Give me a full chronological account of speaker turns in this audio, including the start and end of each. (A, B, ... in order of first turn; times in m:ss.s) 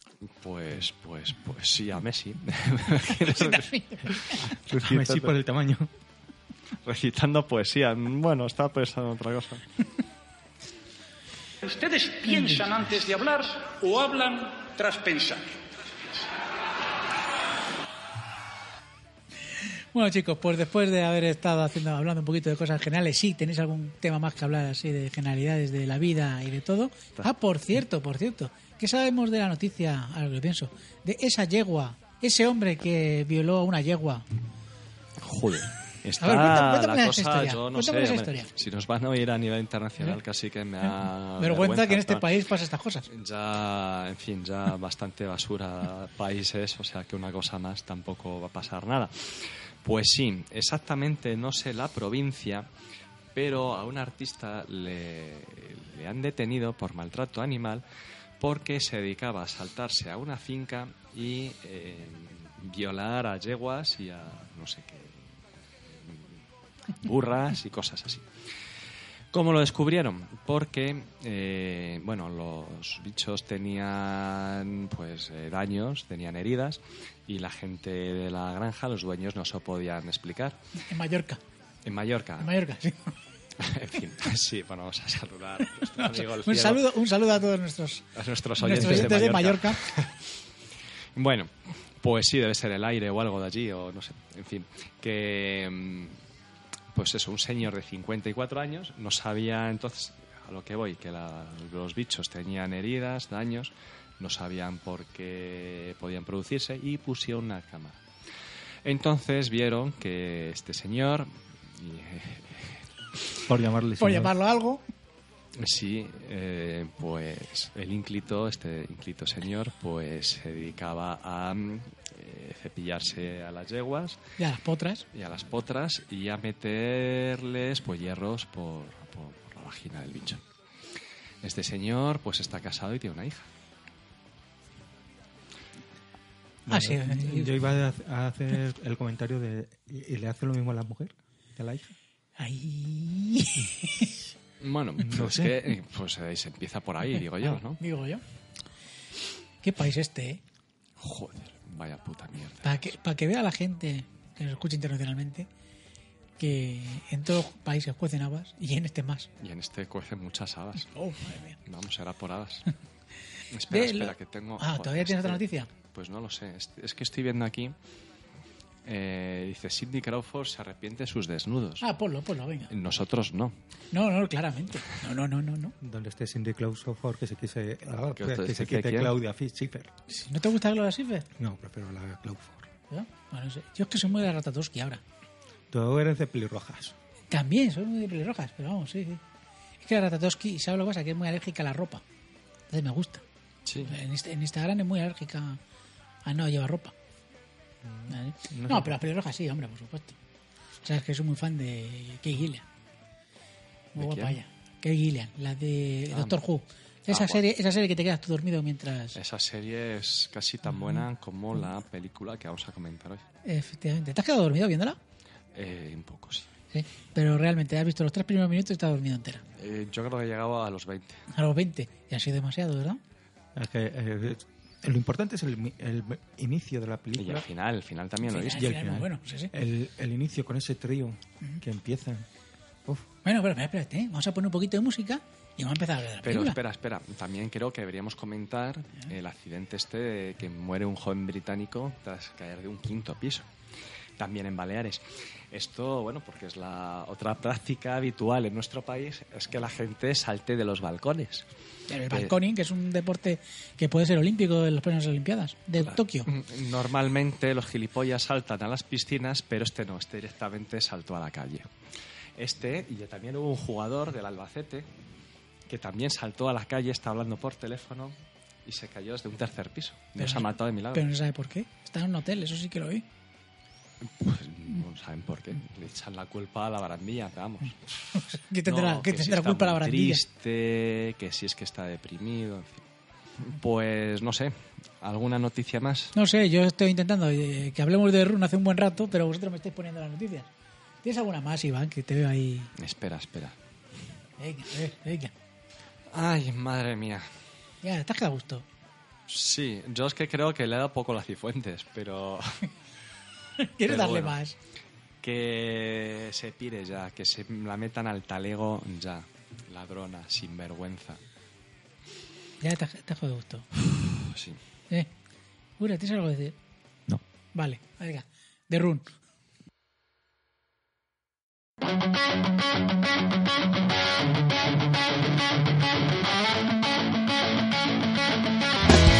0:00.3-0:05.4 A
0:03.2-0:04.3 B
0:04.6-0:05.9 C
0:06.8-0:09.6 A
0:11.6-0:15.6 D
0:19.9-0:34.2 B
0:35.2-0:42.3 A
0:36.2-0:38.5 B
0:41.4-0:43.0 B
0:43.1-0:52.7 A
0:53.3-0:57.8 A
0:58.4-1:05.3 A
1:05.9-1:06.4 A
1:07.0-1:08.2 A
1:09.3-1:20.6 A
1:20.9-1:21.4 B
1:21.8-1:22.5 A
1:22.4-1:23.1 B
1:23.6-1:26.8 A
1:26.0-1:28.1 B
1:28.1-1:30.3 A
1:28.6-1:29.8 B
1:31.1-1:36.2 A
1:36.9-1:48.0 A
1:48.8-1:52.8 A
1:53.5-1:54.3 C
1:54.0-1:54.8 B
1:55.6-2:04.2 A
2:04.4-2:05.0 B
2:05.1-2:10.4 A
2:11.4-2:13.5 A
2:16.6-2:21.9 C
2:16.7-2:17.6 B
2:22.4-2:24.1 B
2:24.6-2:27.8 A
2:25.0-2:25.6 C
2:27.4-2:28.2 B
2:29.6-2:30.4 B
2:31.0-2:32.8 A
2:32.6-2:35.5 B
2:36.4-2:39.3 B
2:39.4-2:40.9 A
2:40.9-2:41.6 B
2:41.6-2:42.7 A
2:43.5-2:47.7 A
2:43.7-2:45.7 B
2:48.8-2:51.8 A
2:51.8-2:52.7 B
2:52.7-2:53.6 A
2:53.9-2:55.8 B
2:55.8-2:59.9 C
2:58.1-2:59.1 A
3:00.1-3:01.3 B
3:01.4-3:02.7 C
3:02.9-3:05.0 B
3:05.7-3:06.9 C
3:07.3-3:09.2 B
3:09.8-3:12.0 B
3:12.7-3:13.2 B
3:13.6-3:14.0 A
3:13.8-3:15.6 B
3:16.2-3:16.9 B
3:17.8-3:19.0 C
3:18.1-3:20.2 B
3:20.8-3:22.6 B
3:23.9-3:29.2 B
3:24.0-3:24.4 A
3:26.1-3:26.4 A
3:27.1-3:27.4 A
3:29.1-3:33.2 A
3:33.4-3:35.0 B
3:35.5-3:36.5 A
3:36.7-3:39.4 B
3:39.6-3:41.2 A
3:41.3-3:43.0 B
3:43.5-3:47.4 C
3:47.2-3:48.7 A
3:48.2-3:49.5 B
3:48.5-3:52.3 C
3:53.2-3:56.6 B
3:56.2-4:03.5 A
4:04.2-4:11.5 A
4:11.9-4:16.3 B
4:12.1-4:12.3 A
4:15.8-4:21.7 A
4:22.4-4:24.8 A
4:25.7-4:31.1 A
4:30.2-4:33.0 B
4:34.0-4:42.8 A
4:38.2-4:40.2 B
4:43.4-4:46.1 A
4:46.1-4:50.5 B
4:51.0-4:52.7 B
4:52.8-4:53.6 A
4:54.4-4:55.3 B
4:56.1-4:57.3 A
4:57.8-4:58.6 B
4:59.3-5:02.7 A
5:03.6-5:04.6 B
5:03.8-5:04.4 A
5:05.2-5:11.2 A
5:12.6-5:13.7 B
5:14.0-5:14.6 A
5:15.8-5:16.5 B
5:17.5-5:19.1 B